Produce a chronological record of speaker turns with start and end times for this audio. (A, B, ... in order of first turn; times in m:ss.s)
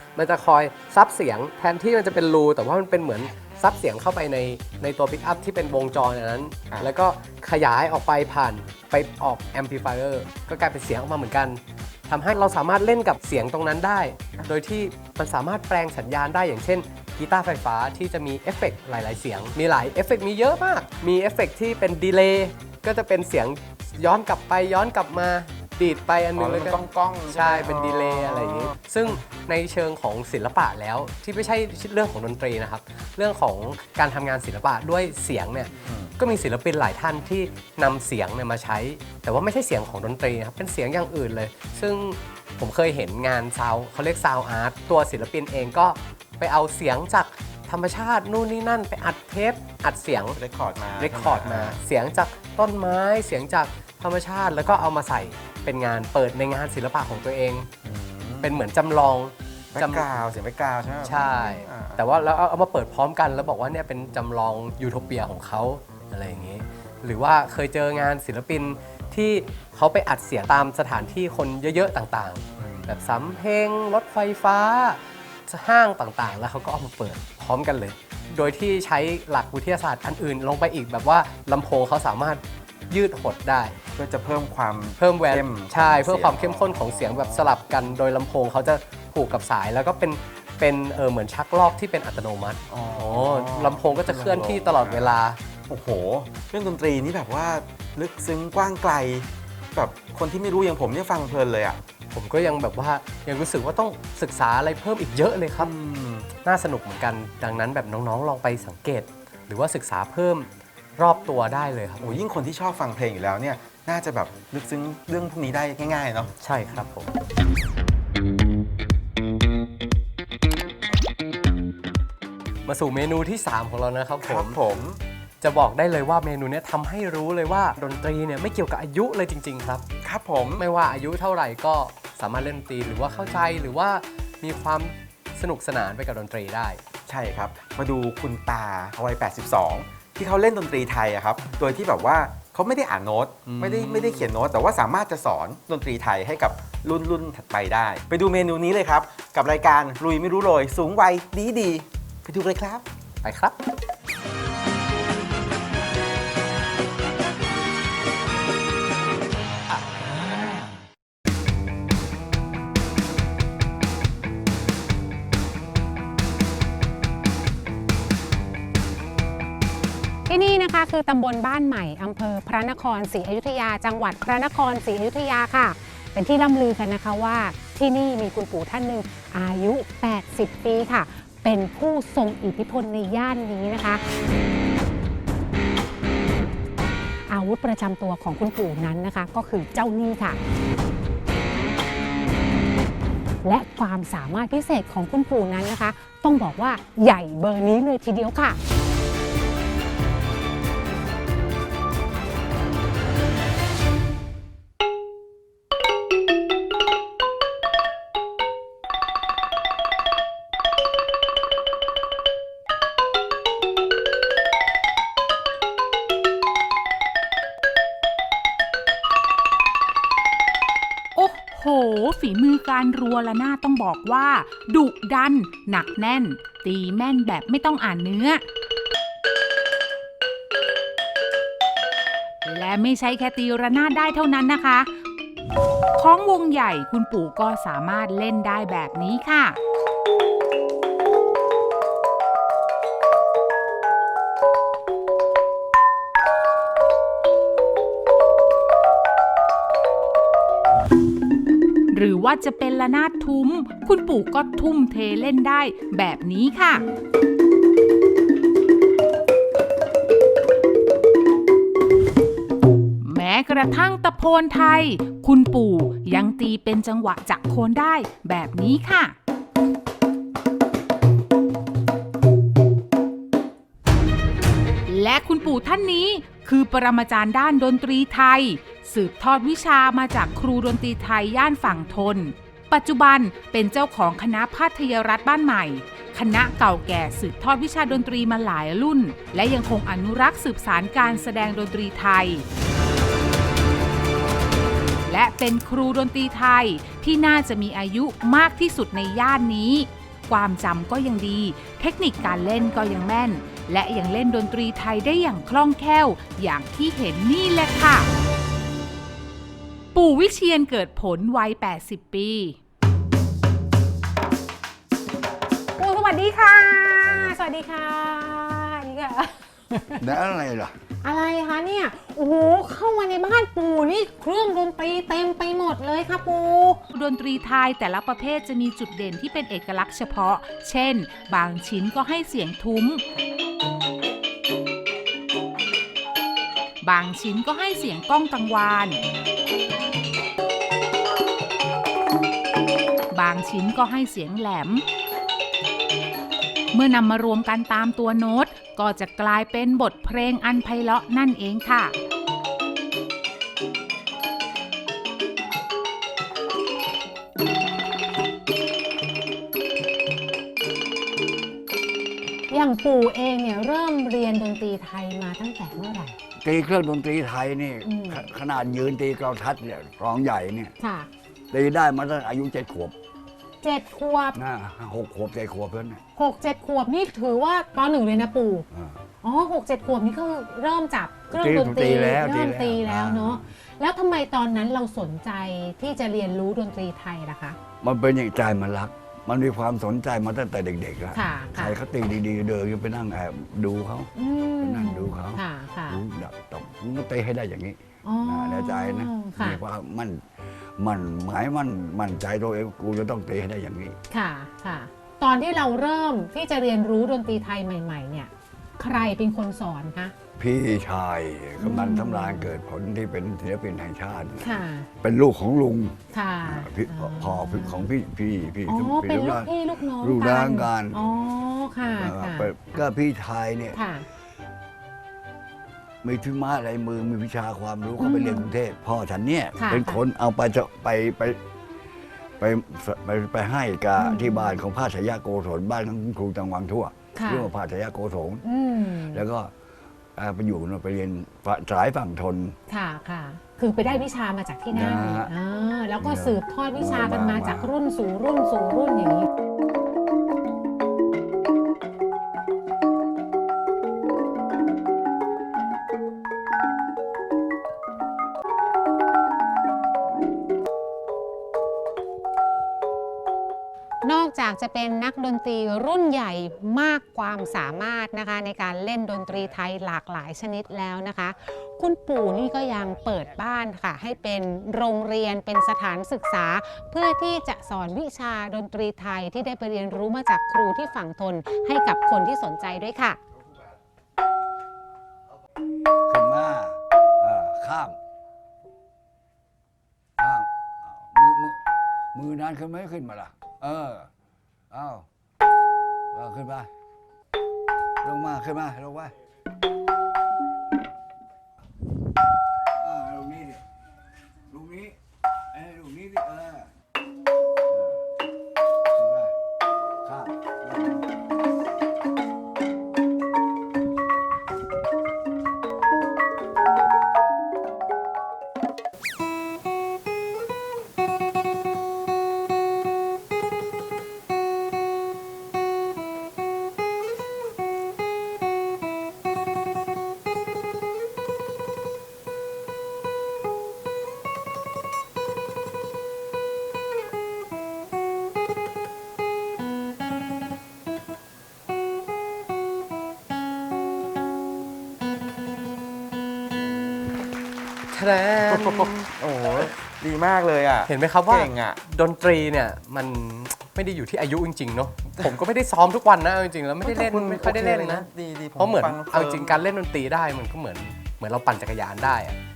0:00.2-0:50.4 A
0:26.4-0:29.2 B
0:35.8-0:36.1 B
0:50.4-0:51.8 B
0:51.0-0:57.7 A
0:57.8-0:58.6 B
0:58.4-1:00.1 A
0:59.7-1:02.0 B
1:01.0-1:23.8 A
1:12.6-1:12.9 B
1:24.0-1:27.6 B
1:25.0-1:35.4 A
1:32.7-1:35.1 B
1:35.7-1:41.8 B
1:42.1-1:45.7 A
1:45.6-1:46.3 B
1:46.4-1:52.2 A
1:52.0-1:56.3 B
1:56.4-1:57.1 A
2:02.6-2:04.6 A
2:04.2-2:05.0 B
2:05.4-2:09.9 A
2:10.0-2:10.6 B
2:10.6-2:16.8 A
2:17.1-2:32.9 B
2:23.5-2:24.3 A
2:33.2-2:33.6 A
2:50.3-3:04.0 C
3:07.3-3:10.4 C
3:13.4-3:18.6 C
3:41.1-3:48.4 D
3:52.4-3:54.9 D
3:55.9-3:59.6 D
4:11.9-4:16.8 D
4:23.0-4:29.1 D
4:34.9-4:52.4 D
4:55.1-5:08.1 D
5:09.9-5:12.6 D
5:15.8-5:20.1 C
5:20.0-5:20.8 E
5:21.0-5:26.8 C
5:26.9-5:33.0 D
5:36.8-5:39.0 D
5:43.1-5:44.8 D
5:46.7-5:51.9 D
6:02.5-6:06.2 C
6:06.4-6:10.7 E
6:07.8-6:08.2 C
6:10.8-6:11.1 C
6:11.5-6:12.9 E
6:13.6-6:14.4 C
6:14.4-6:16.0 E
6:16.2-6:18.7 C
6:18.7-6:19.0 E
6:19.2-6:27.6 C
6:21.3-6:23.4 E
6:27.8-6:44.0 E
6:31.1-6:31.8 C
6:34.2-6:36.0 C
6:38.0-6:39.6 C
6:44.1-6:50.1 C
6:50.4-7:01.0 E
6:51.6-6:52.5 C
6:54.4-6:54.9 C
6:56.1-6:57.9 C
6:58.6-7:02.8 C
7:01.9-7:03.8 E
7:03.7-7:04.0 C
7:06.0-7:11.4 E
7:08.0-7:08.5 C
7:09.6-7:10.0 C
7:12.4-7:18.4 E
7:14.0-7:14.6 C
7:17.2-7:17.5 C
7:18.4-7:19.2 C
7:19.0-7:19.5 E
7:20.2-7:22.6 E
7:22.7-7:29.3 C
7:23.8-7:24.1 E
7:24.7-7:25.3 E
7:26.0-7:27.7 E
7:44.0-8:03.2 C
8:06.1-8:08.0 E
8:10.2-8:11.6 E
8:12.1-8:14.1 E
8:14.7-8:15.1 E
8:16.1-8:16.7 E
8:18.0-8:19.1 E
8:22.8-8:23.6 E
8:24.5-8:25.0 E
8:25.5-8:26.7 E
8:27.7-8:28.0 E
8:28.9-8:29.4 E
8:30.0-8:31.1 E
9:07.9-9:09.1 A
9:08.4-9:11.8 B
9:10.9-9:18.1 A
9:16.8-9:19.6 B
9:18.6-9:22.4 A